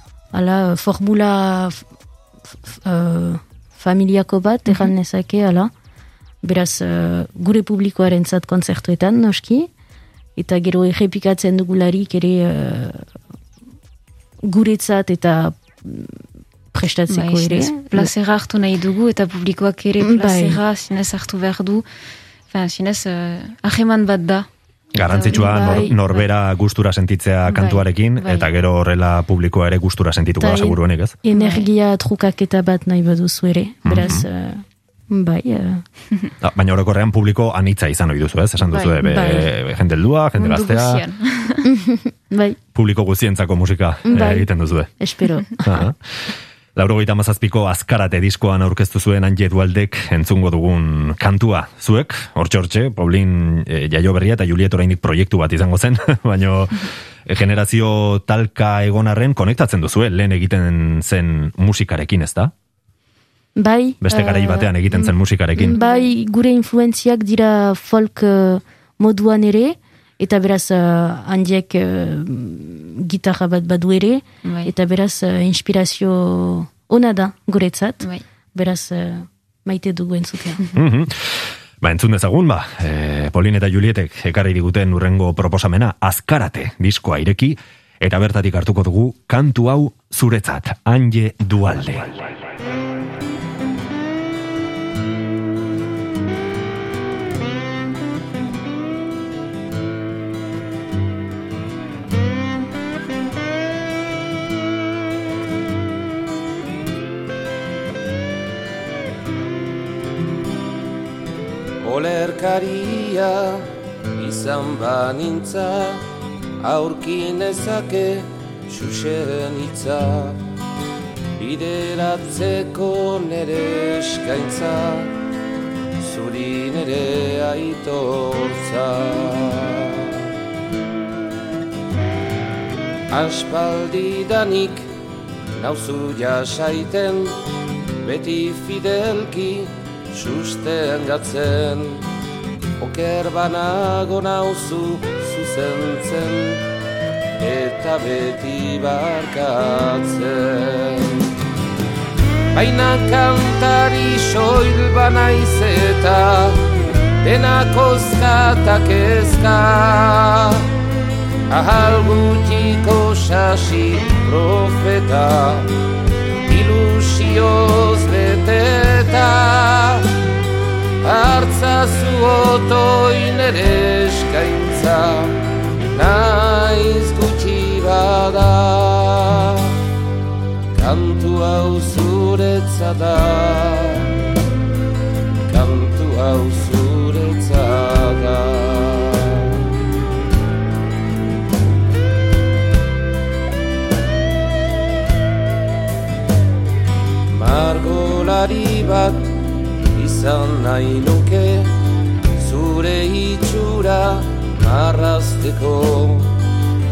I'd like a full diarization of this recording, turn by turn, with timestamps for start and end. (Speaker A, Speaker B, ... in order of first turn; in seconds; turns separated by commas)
Speaker A: 0.3-1.8, Speaker A: 2.6-5.7, Speaker A: 6.4-9.7, Speaker A: 10.4-13.1, Speaker A: 14.5-16.2, Speaker A: 16.7-18.1, Speaker B: 17.1-21.8, Speaker A: 20.0-20.6, Speaker B: 22.5-24.5, Speaker C: 24.9-31.1, Speaker B: 25.0-26.2, Speaker A: 25.2-25.9, Speaker B: 27.5-28.5, Speaker A: 30.4-35.8, Speaker B: 31.3-31.7, Speaker C: 33.9-34.2, Speaker C: 36.4-41.0, Speaker B: 38.7-39.0, Speaker A: 39.0-39.5, Speaker B: 40.4-41.6, Speaker A: 41.6-42.6, Speaker C: 42.7-44.9, Speaker A: 44.1-44.5, Speaker A: 45.0-45.9, Speaker C: 45.6-62.5, Speaker A: 63.5-64.7, Speaker C: 64.0-65.8, Speaker A: 65.5-80.6, Speaker B: 65.8-66.1, Speaker B: 74.4-74.7, Speaker C: 80.7-92.2, Speaker D: 111.8-113.7, Speaker D: 114.2-116.0, Speaker D: 116.6-120.4, Speaker D: 121.4-125.1, Speaker D: 126.0-130.1, Speaker D: 133.1-134.9, Speaker D: 135.6-137.3, Speaker D: 138.0-142.0, Speaker D: 142.8-146.6, Speaker D: 147.4-151.2, Speaker D: 152.5-156.6, Speaker D: 157.2-160.6, Speaker D: 161.5-165.7, Speaker D: 166.5-170.1, Speaker D: 171.0-175.3, Speaker D: 175.9-179.7, Speaker D: 180.7-184.1, Speaker D: 185.5-189.6, Speaker D: 197.3-199.3, Speaker D: 199.9-201.7, Speaker D: 202.4-206.3